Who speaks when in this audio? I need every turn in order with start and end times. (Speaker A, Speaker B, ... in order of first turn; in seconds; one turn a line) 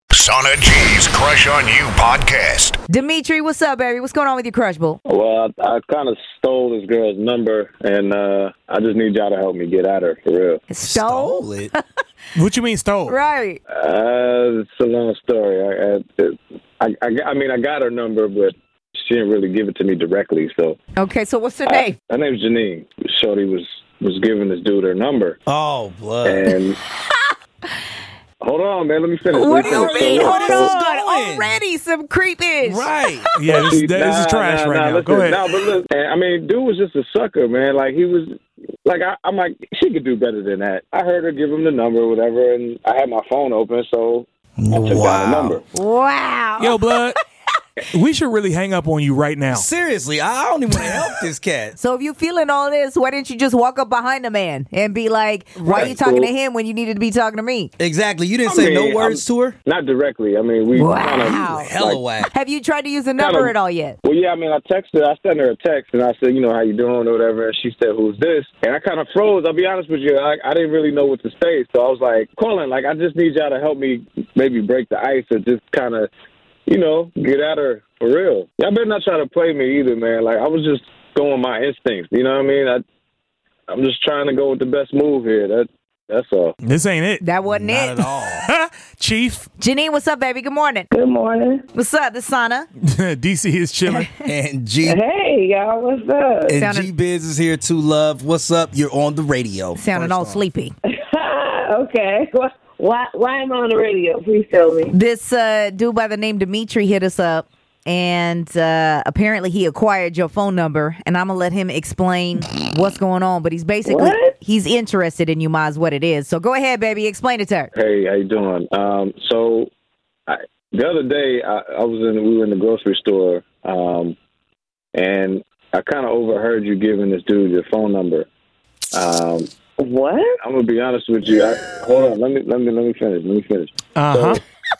Speaker A: 0.1-2.8
Speaker B: 2.9-5.0
Speaker C: 5.1-10.6
Speaker B: 10.7-12.0
Speaker D: 10.8-11.7
Speaker E: 12.3-13.2
Speaker B: 13.1-13.6
Speaker C: 13.7-20.8
Speaker B: 21.0-22.0
Speaker C: 21.7-25.4
Speaker D: 25.5-26.5
Speaker C: 26.2-26.8
Speaker C: 28.4-30.7
Speaker B: 29.3-33.4
Speaker D: 29.6-31.6
Speaker D: 32.6-33.3
Speaker E: 33.4-35.4
Speaker C: 33.4-45.6
Speaker D: 44.6-45.6
Speaker B: 45.7-47.2
Speaker E: 46.6-47.2
Speaker E: 47.8-49.7
Speaker D: 49.5-51.8
Speaker B: 51.8-57.7
Speaker C: 55.6-56.3
Speaker D: 57.8-59.6
Speaker C: 58.5-62.1
Speaker B: 60.8-61.7
Speaker D: 61.5-62.3
Speaker B: 62.3-64.0
Speaker C: 63.2-76.1
Speaker C: 76.7-82.8
Speaker C: 83.7-86.5
Speaker E: 86.6-87.3
Speaker B: 87.2-88.1
Speaker D: 87.5-88.4
Speaker E: 88.3-89.5
Speaker B: 89.6-90.9
Speaker F: 90.9-91.6
Speaker B: 91.7-92.7
Speaker E: 92.8-94.1
Speaker B: 93.9-94.3
Speaker D: 94.2-95.0
Speaker F: 94.8-96.6
Speaker D: 96.5-100.5
Speaker B: 96.6-96.9
Speaker B: 99.8-100.7
Speaker F: 101.1-104.9
Speaker B: 104.9-117.7
Speaker F: 113.8-114.3
Speaker C: 117.7-119.7
Speaker C: 120.3-124.2
Speaker C: 124.9-128.3
Speaker C: 128.9-129.5
Speaker F: 129.8-130.3
Speaker C: 130.4-134.4
Speaker E: 134.0-134.4